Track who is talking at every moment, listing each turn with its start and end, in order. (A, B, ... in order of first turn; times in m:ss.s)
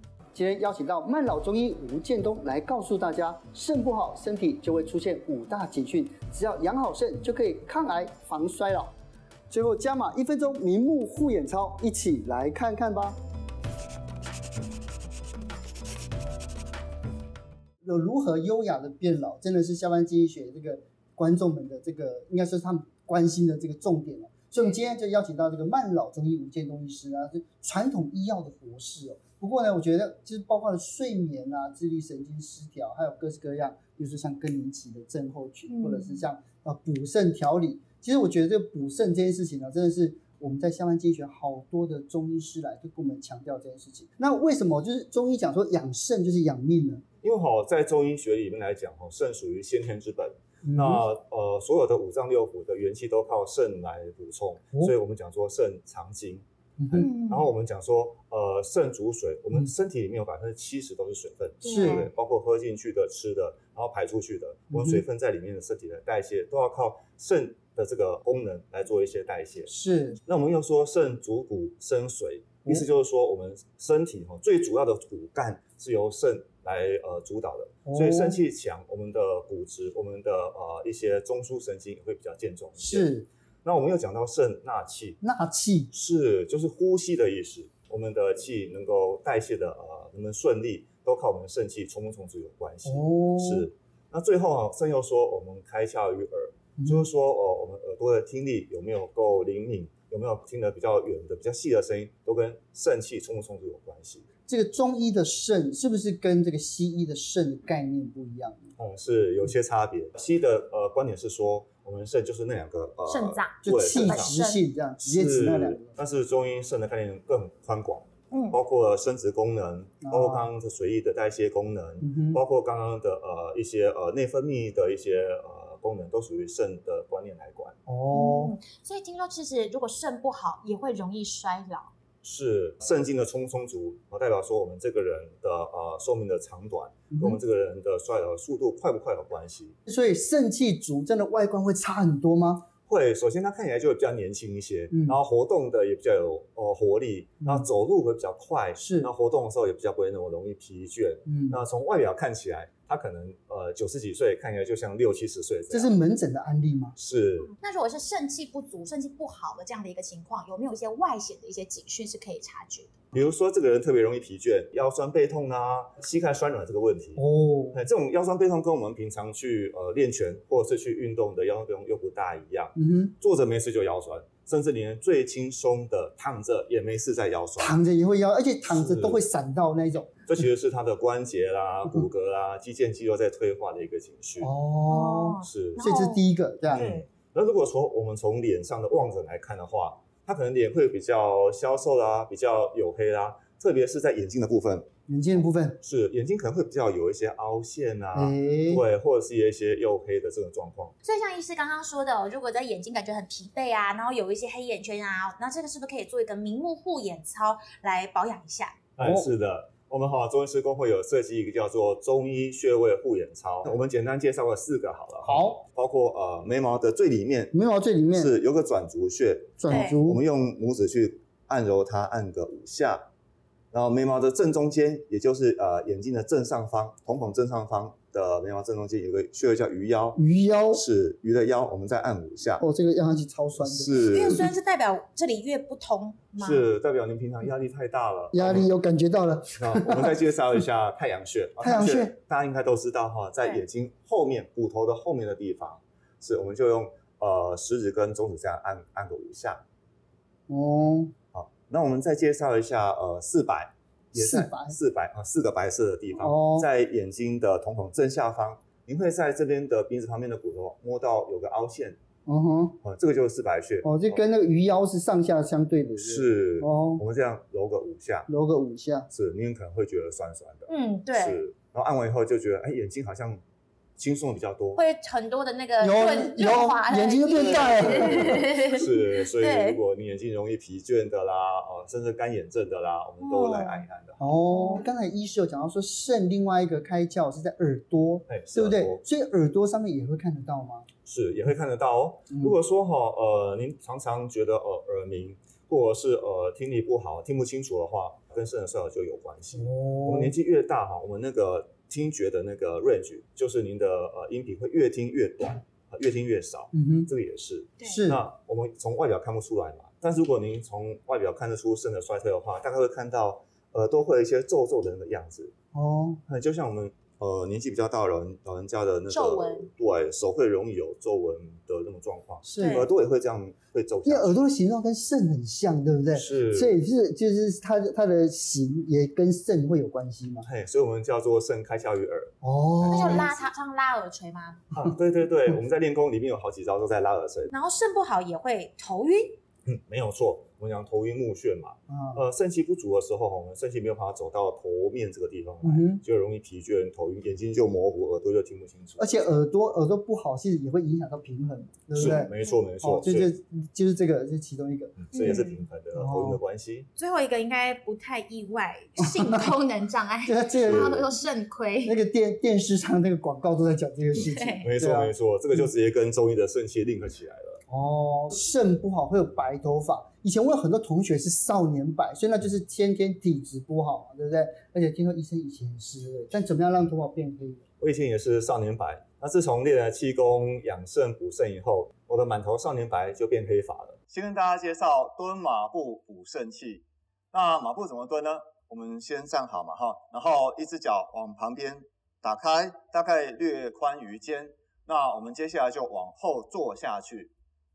0:00.3-0:08.9 A
0:09.5-0:13.2 A
0:17.8-0:47.0 A
0:35.7-0:36.2 B
0:47.2-1:09.7 C
0:50.6-0:51.0 A
0:56.8-0:57.1 A
0:56.9-0:57.5 B
1:01.6-1:02.1 B
1:01.7-1:02.1 A
1:04.7-1:05.0 A
1:09.7-1:10.2 A
1:10.3-1:23.1 C
1:17.9-1:18.4 A
1:22.8-1:23.3 A
1:23.6-1:25.2 C
1:25.2-1:25.9 A
1:25.9-1:44.3 C
1:32.9-1:33.7 A
1:36.8-1:37.1 A
1:44.5-1:48.7 A
1:48.8-1:54.4 C
1:53.1-1:54.6 B
1:53.6-1:56.0 A
1:55.0-2:07.8 C
1:58.3-1:58.6 B
2:00.0-2:00.5 A
2:02.0-2:02.4 A
2:07.9-2:08.5 A
2:08.1-2:11.9 B
2:12.2-2:19.8 C
2:17.1-2:17.4 A
2:19.9-2:22.7 A
2:22.9-2:36.0 C
2:24.9-2:25.2 A
2:28.8-2:29.1 A
2:31.3-2:31.6 A
2:35.7-2:37.0 A
2:37.0-2:37.5 C
2:37.6-2:42.9 B
2:43.1-2:57.8 C
2:47.2-2:47.8 A
2:52.8-2:53.1 A
2:57.6-3:00.3 A
2:58.7-2:59.2 C
3:00.3-3:04.5 C
3:04.4-3:06.9 A
3:04.9-3:07.0 B
3:05.4-3:05.8 C
3:06.7-3:14.9 C
3:15.1-3:15.8 A
3:15.8-3:20.9 C
3:18.1-3:18.8 A
3:21.0-3:28.8 B
3:29.0-3:37.6 C
3:29.0-3:29.3 A
3:35.2-3:35.6 A
3:37.5-3:38.3 A
3:38.1-3:43.1 C
3:39.6-3:40.2 A
3:39.7-3:40.0 B
3:43.7-3:50.2 C
3:50.2-3:50.8 A
3:50.7-3:52.6 C
3:52.6-3:54.5 A
3:53.6-3:54.5 C
3:54.1-3:56.7 B
3:56.4-3:58.7 C
3:58.3-4:00.2 A
3:59.6-4:09.6 C
4:01.6-4:02.2 A
4:10.5-4:11.1 A
4:11.3-4:22.0 C
4:14.2-4:14.8 A
4:16.1-4:16.7 A
4:22.3-4:22.8 A
4:22.8-4:24.2 C
4:23.8-4:27.0 A
4:26.0-4:28.3 C
4:28.3-4:29.1 A
4:29.1-4:33.4 C
4:30.7-4:31.4 B
4:34.0-4:34.8 C
4:34.8-4:39.8 B
4:35.8-4:38.4 A
4:37.3-4:44.2 C
4:43.2-4:43.9 B
4:44.2-4:50.9 A
4:44.5-4:44.8 B
4:48.3-4:49.0 C
4:51.1-5:15.5 C
4:59.6-5:00.3 A
5:06.7-5:07.1 A
5:07.8-5:08.0 B
5:07.8-5:08.2 A
5:15.7-5:16.2 A
5:16.3-5:24.3 C
5:19.1-5:19.7 B
5:22.4-5:22.9 A
5:22.6-5:22.9 B
5:24.0-5:30.5 A
5:26.1-5:26.8 C
5:30.4-5:33.5 C
5:32.4-5:33.3 A
5:32.9-5:34.6 B
5:34.7-5:37.5 C
5:37.5-5:39.4 B
5:39.7-5:49.0 C
5:41.9-5:42.2 A
5:45.6-5:46.0 A
5:49.0-5:55.4 A
5:51.9-5:53.3 C
5:52.0-5:52.6 B
5:55.0-5:56.9 C
5:55.1-5:55.7 B
5:56.0-5:56.4 A
5:57.0-6:02.0 B
6:00.2-6:01.0 A
6:00.6-6:01.1 C
6:01.8-6:05.1 A
6:04.1-6:04.7 B
6:04.6-6:07.6 C
6:07.7-6:17.6 A
6:17.8-6:37.3 C